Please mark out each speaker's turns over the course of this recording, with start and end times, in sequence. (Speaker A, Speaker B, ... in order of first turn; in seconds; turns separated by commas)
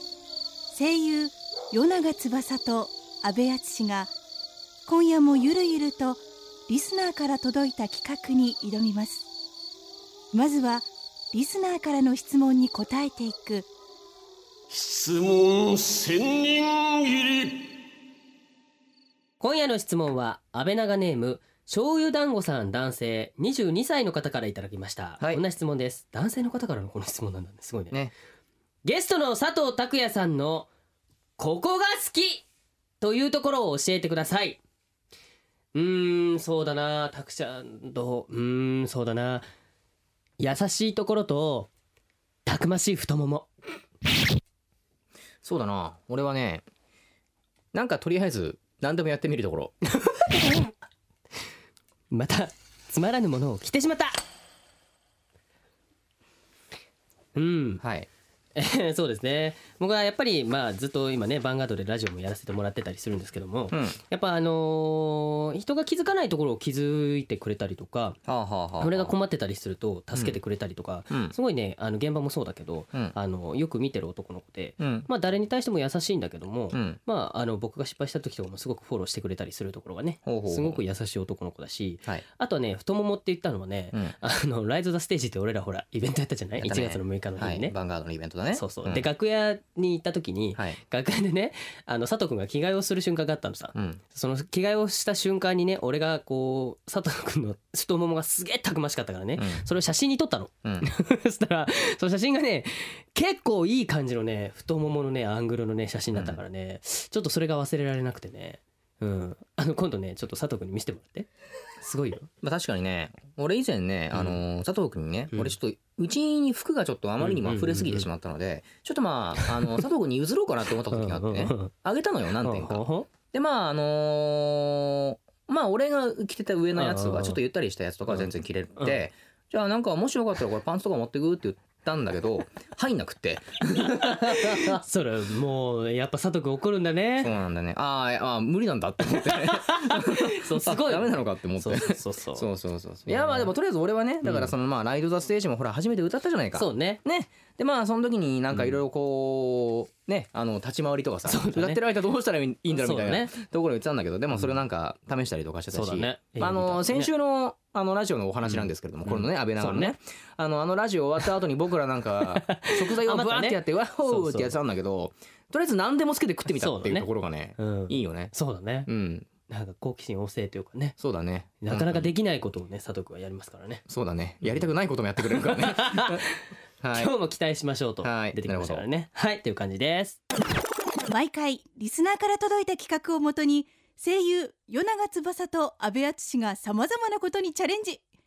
Speaker A: 0.7-4.1, Speaker A: 4.9-9.2, Speaker A: 10.3-13.7, Speaker B: 14.7-17.7, Speaker C: 19.4-28.0, Speaker C: 28.9-30.7, Speaker C: 31.4-32.4, Speaker C: 33.0-34.6, Speaker C: 35.7-39.5, Speaker C: 40.4-41.7, Speaker C: 42.5-43.5, Speaker D: 45.4-46.6, Speaker D: 47.7-49.8, Speaker C: 50.0-50.5, Speaker C: 52.1-54.2, Speaker C: 57.4-57.8, Speaker D: 57.8-58.1, Speaker C: 58.5-68.2, Speaker D: 63.7-64.0, Speaker D: 68.3-69.1, Speaker C: 68.8-87.8, Speaker D: 71.1-71.3, Speaker D: 74.8-75.1, Speaker D: 76.7-77.0, Speaker D: 80.2-80.8, Speaker D: 86.6-89.1, Speaker C: 88.5-111.3, Speaker D: 93.7-94.0, Speaker D: 99.4-99.7, Speaker D: 106.1-106.4, Speaker C: 111.8-112.3, Speaker D: 112.4-134.8, Speaker C: 117.2-118.1, Speaker C: 119.4-119.8, Speaker C: 120.9-121.7, Speaker C: 122.4-123.1, Speaker C: 126.8-127.4, Speaker C: 128.8-129.1, Speaker C: 133.8-137.3, Speaker D: 137.2-168.3, Speaker C: 139.2-142.5, Speaker C: 143.1-143.5, Speaker C: 144.2-144.5, Speaker C: 146.6-147.0, Speaker C: 151.3-151.9, Speaker C: 152.7-153.3, Speaker C: 155.7-157.1, Speaker C: 159.1-159.9, Speaker C: 162.2-164.6, Speaker C: 166.5-168.9, Speaker D: 168.9-169.3, Speaker C: 169.5-171.0, Speaker D: 171.0-172.1, Speaker C: 171.6-173.8, Speaker D: 173.9-176.2, Speaker C: 175.3-176.3, Speaker D: 176.8-177.1, Speaker C: 176.9-180.2, Speaker D: 178.0-178.8, Speaker A: 181.1-188.0